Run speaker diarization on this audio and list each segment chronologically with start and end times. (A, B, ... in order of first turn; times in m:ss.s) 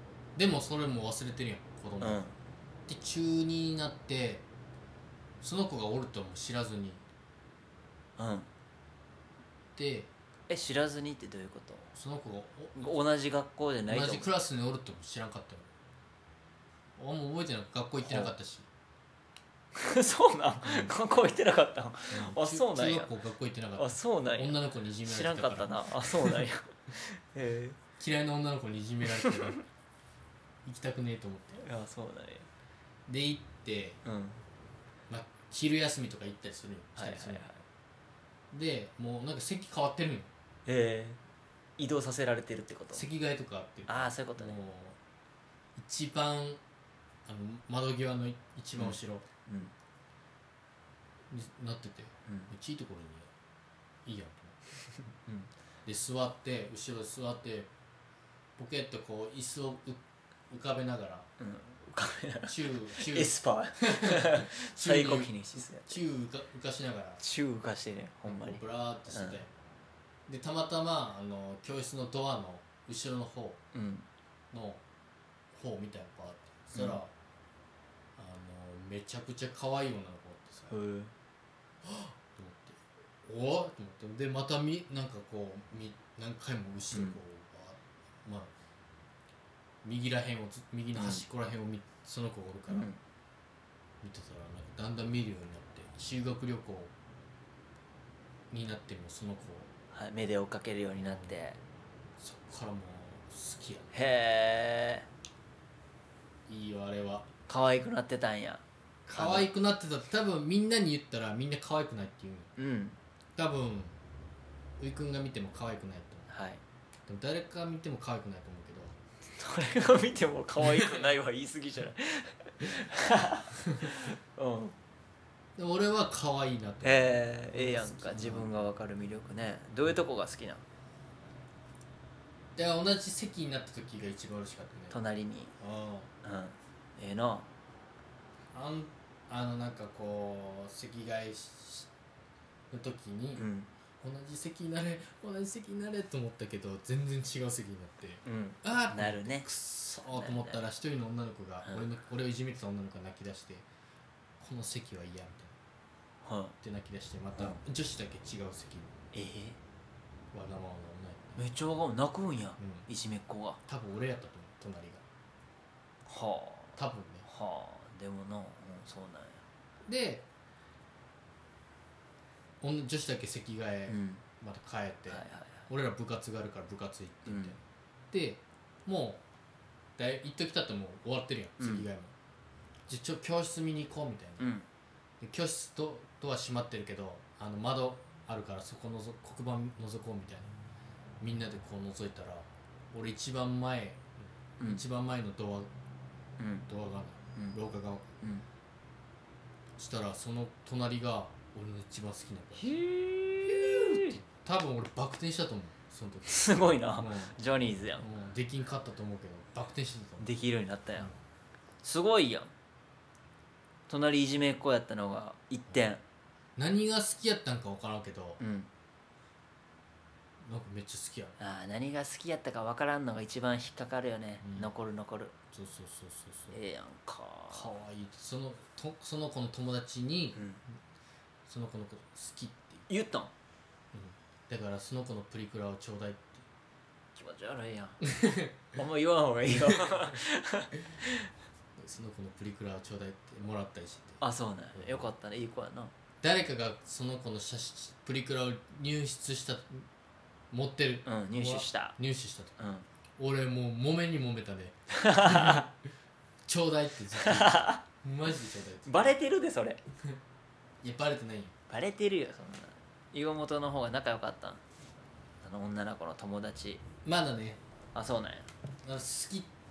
0:00.4-0:02.2 A
0:02.0-0:02.4 B
0:02.9-0:04.4 A
0:05.4-0:07.0 A
0:08.2-0:08.5 B
0:09.8-0:10.1 A
0:10.5-0:11.9 B
0:11.9-0:13.0 A
0:12.8-0:14.3 B
0:13.9-0:15.7 A
0:17.0-0:18.7 A
0:18.0-0:18.3 B
0:19.8-0:23.1 B
0:20.6-0:20.9 A
0:22.1-0:26.4 A
0:23.8-0:27.8 B
0:28.0-0:29.6 A
0:30.6-0:31.6 A
0:31.6-0:32.5 B
0:33.1-0:34.0 A
0:34.0-0:34.4 B
0:35.1-0:37.5 A
0:37.0-0:37.6 B
0:38.5-0:40.3 A
0:40.7-0:41.2 B
0:41.8-0:43.1 B
0:42.9-0:45.0 A
0:43.9-0:44.6 B
0:45.8-0:46.6 A
0:47.3-0:49.2 A
0:48.8-0:49.7 B
0:51.3-0:53.3 A
0:52.3-0:52.5 B
0:54.1-0:54.7 A
0:55.8-0:57.7 A
0:58.6-1:01.3 A
1:01.4-1:06.0 B
1:02.5-1:07.2 A
1:07.2-1:09.4 B
1:08.3-1:09.5 A
1:10.3-1:13.6 A
1:13.7-1:14.1 B
1:14.5-1:14.8 A
1:15.5-1:17.1 A
1:16.7-1:17.0 B
1:18.2-1:20.8 A
1:20.7-1:21.1 B
1:21.8-1:28.5 A
1:26.9-1:27.2 B
1:29.8-1:32.9 A
1:31.0-1:31.2 B
1:32.7-1:33.0 B
1:34.0-1:36.9 A
1:38.5-1:39.7 A
1:39.9-1:41.6 B
1:41.0-1:41.4 A
1:42.2-1:43.9 A
1:43.9-1:45.1 B
1:46.5-1:47.3 A
1:47.5-1:48.6 B
1:49.1-1:52.5 A
1:49.2-1:49.5 B
1:52.6-1:53.0 B
1:53.4-1:54.0 A
1:54.8-1:56.3 A
1:56.3-1:56.6 B
1:57.1-1:59.0 A
1:59.4-2:04.8 B
2:00.7-2:01.0 A
2:05.6-2:08.6 A
2:06.8-2:10.6 B
2:12.6-2:15.0 A
2:14.9-2:15.5 B
2:15.6-2:16.1 A
2:16.2-2:17.5 B
2:18.5-2:21.9 A
2:22.7-2:23.4 A
2:23.4-2:23.7 B
2:24.0-2:33.7 A
2:28.2-2:29.5 B
2:30.1-2:30.6 B
2:34.4-2:35.6 A
2:36.2-2:36.6 B
2:36.6-2:38.9 A
2:39.1-2:39.6 B
2:40.3-2:41.4 A
2:41.4-2:43.6 B
2:42.6-2:42.9 A
2:43.7-2:45.0 A
2:46.1-2:49.4 B
2:46.8-2:47.3 A
2:49.9-2:50.2 A
2:52.6-2:57.6 A
2:53.9-2:54.2 B
2:55.1-2:55.7 B
2:57.3-2:57.6 B
2:58.1-2:59.2 A
3:00.0-3:02.1 A
3:01.6-3:01.9 B
3:02.9-3:04.5 A
3:04.4-3:04.7 B
3:05.2-3:10.5 A
3:11.2-3:15.7 A
3:16.4-3:16.7 B
3:16.7-3:18.1 A
3:19.8-3:22.8 A
3:22.6-3:24.2 B
3:23.5-3:26.4 A
3:26.3-3:28.1 B
3:27.0-3:27.4 A
3:28.0-3:30.3 A
3:30.2-3:31.1 B
3:31.8-3:32.5 B
3:33.9-3:36.0 B
3:36.6-3:38.4 A
3:38.4-3:38.7 B
3:40.4-3:41.4 A
3:41.4-3:45.4 B
3:44.4-3:44.7 A
3:45.5-3:46.6 A
3:46.5-3:47.7 B
3:47.5-3:50.4 A
3:50.4-3:50.6 B
3:51.5-3:52.9 A
3:52.9-3:53.3 B
3:53.9-3:56.5 A
3:57.2-3:58.0 B
3:58.1-3:58.6 A
3:58.7-4:01.3 B
3:59.5-4:00.2 A
4:01.8-4:04.2 A
4:04.2-4:05.9 B
4:04.8-4:05.1 A
4:06.2-4:09.9 A
4:10.5-4:12.6 A
4:11.1-4:12.0 B
4:12.6-4:12.9 B
4:13.2-4:15.7 A
4:14.9-4:15.7 B
4:16.5-4:19.2 A
4:17.2-4:17.8 B
4:18.9-4:19.8 B
4:20.8-4:21.5 A
4:21.7-4:24.6 B
4:25.4-4:26.8 B
4:27.0-4:27.6 A
4:28.0-4:28.5 B
4:28.8-4:29.5 A